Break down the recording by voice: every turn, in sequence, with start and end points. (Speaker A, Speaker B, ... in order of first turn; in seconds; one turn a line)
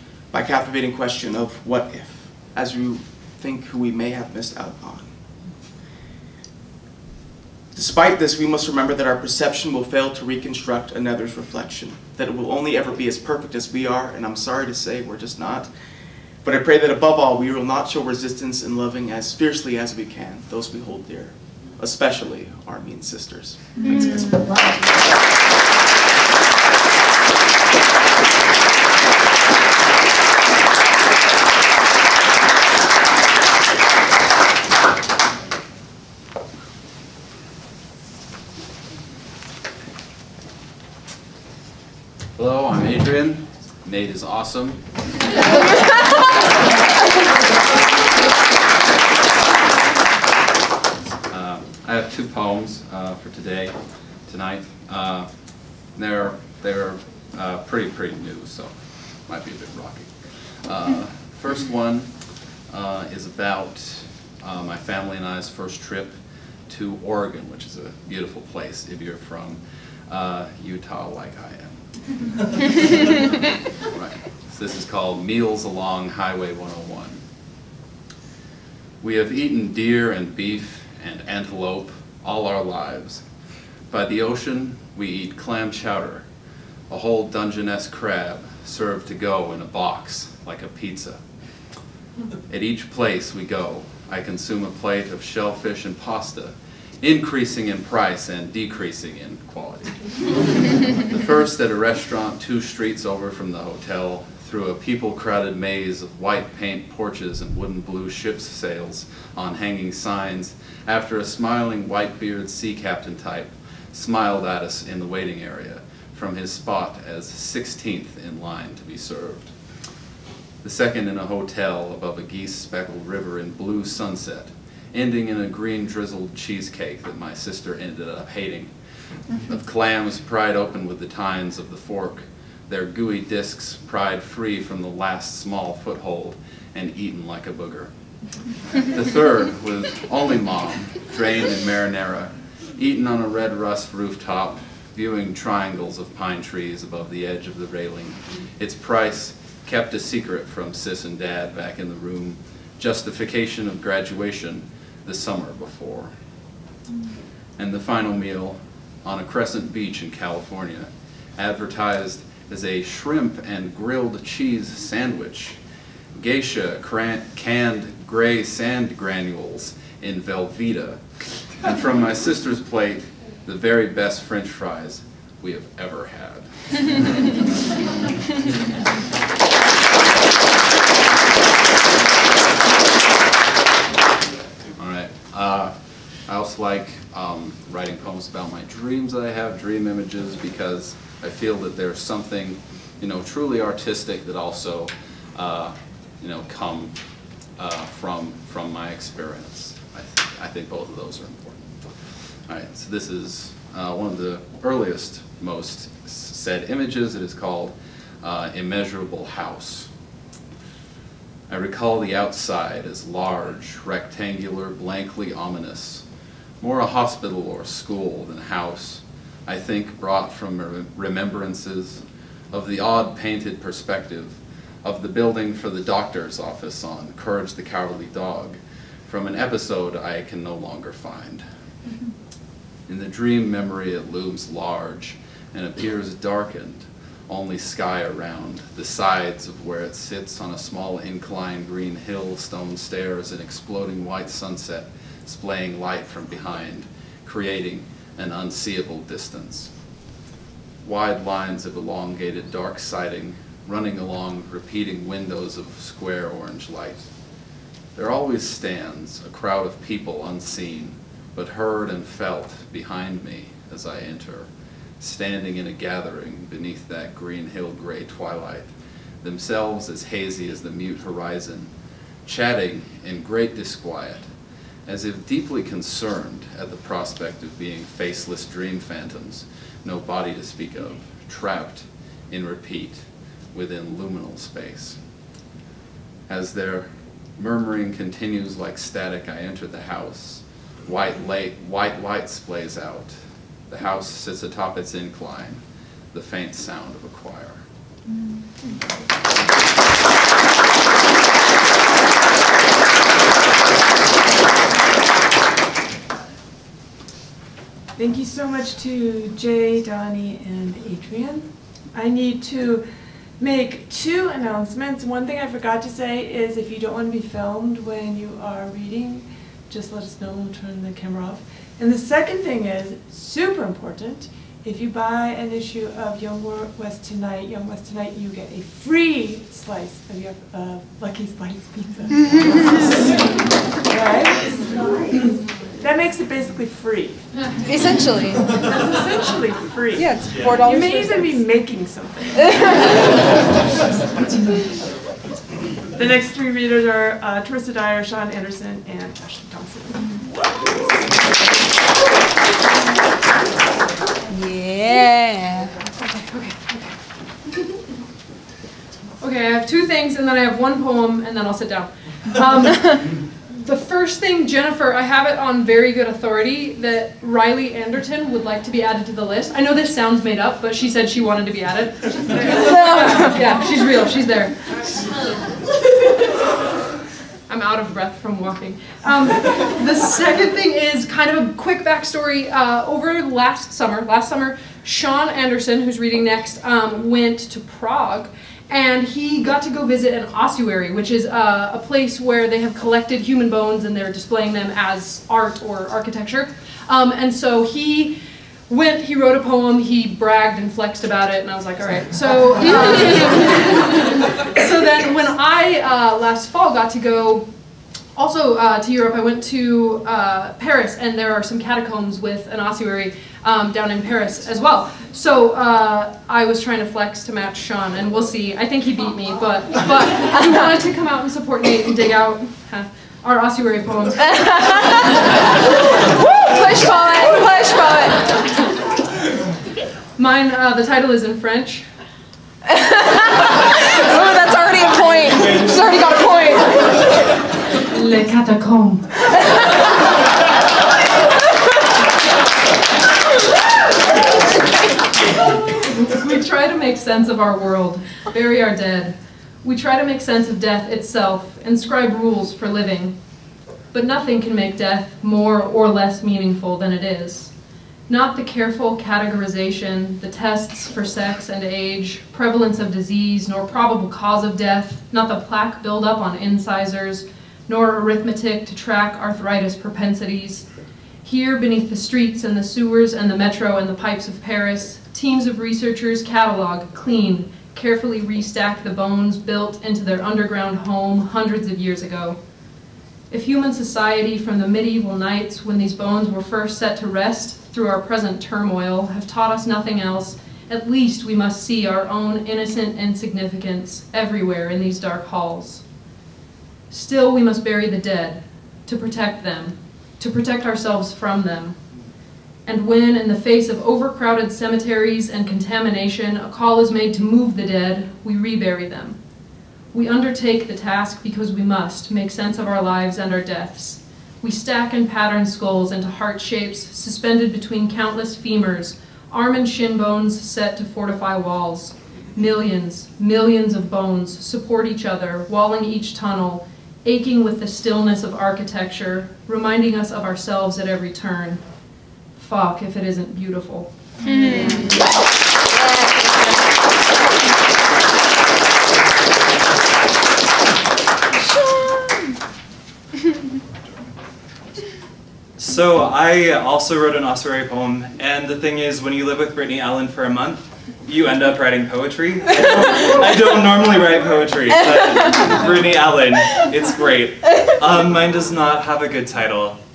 Speaker A: 0.3-5.1
Speaker A: 7.8-15.7
Speaker A: 16.4-24.2
Speaker B: 23.8-24.3
Speaker C: 42.4-44.8
Speaker C: 51.3-53.8
Speaker C: 54.3-55.3
Speaker C: 55.9-62.1
Speaker C: 62.7-66.2
Speaker C: 66.7-71.8
Speaker C: 73.9-77.2
Speaker C: 79.0-83.2
Speaker C: 83.9-86.3
Speaker C: 86.9-91.2
Speaker C: 92.5-100.0
Speaker C: 101.0-119.5
Speaker C: 120.6-128.7
Speaker C: 129.4-137.9
Speaker C: 138.8-156.1
Speaker C: 157.6-165.6
Speaker C: 166.2-171.0
Speaker C: 171.6-177.0
Speaker C: 184.8-185.7
Speaker C: 186.3-196.9
Speaker C: 197.6-201.7
Speaker C: 202.5-209.9
Speaker C: 211.5-216.0
Speaker C: 216.6-231.4
Speaker C: 232.9-249.7
Speaker C: 250.8-257.1
Speaker C: 257.9-264.5
Speaker C: 265.0-268.7
Speaker C: 269.2-271.7
Speaker C: 272.2-274.3
Speaker C: 274.9-285.0
Speaker C: 286.3-293.1
Speaker C: 293.7-297.6
Speaker D: 308.0-312.8
Speaker D: 313.4-337.3
Speaker B: 337.6-338.5
Speaker D: 338.6-343.0
Speaker B: 339.9-341.4
Speaker D: 345.9-350.9
Speaker B: 354.3-355.7
Speaker E: 356.1-356.9
Speaker E: 359.2-374.5
Speaker B: 372.5-373.5
Speaker E: 377.5-407.5
Speaker E: 408.2-425.2
Speaker B: 424.3-425.2
Speaker B: 426.0-428.4
Speaker E: 430.2-431.9
Speaker B: 432.7-436.9
Speaker E: 437.9-439.1
Speaker E: 445.6-453.1
Speaker E: 453.9-457.5
Speaker E: 458.1-470.7
Speaker E: 471.2-482.4
Speaker E: 483.3-495.8
Speaker E: 496.9-501.8
Speaker E: 502.7-509.2
Speaker E: 509.9-531.6
Speaker E: 532.4-533.9
Speaker B: 534.2-535.1
Speaker E: 534.6-534.9
Speaker B: 535.7-537.0
Speaker B: 541.3-542.3
Speaker F: 545.6-559.8
Speaker B: 555.1-555.4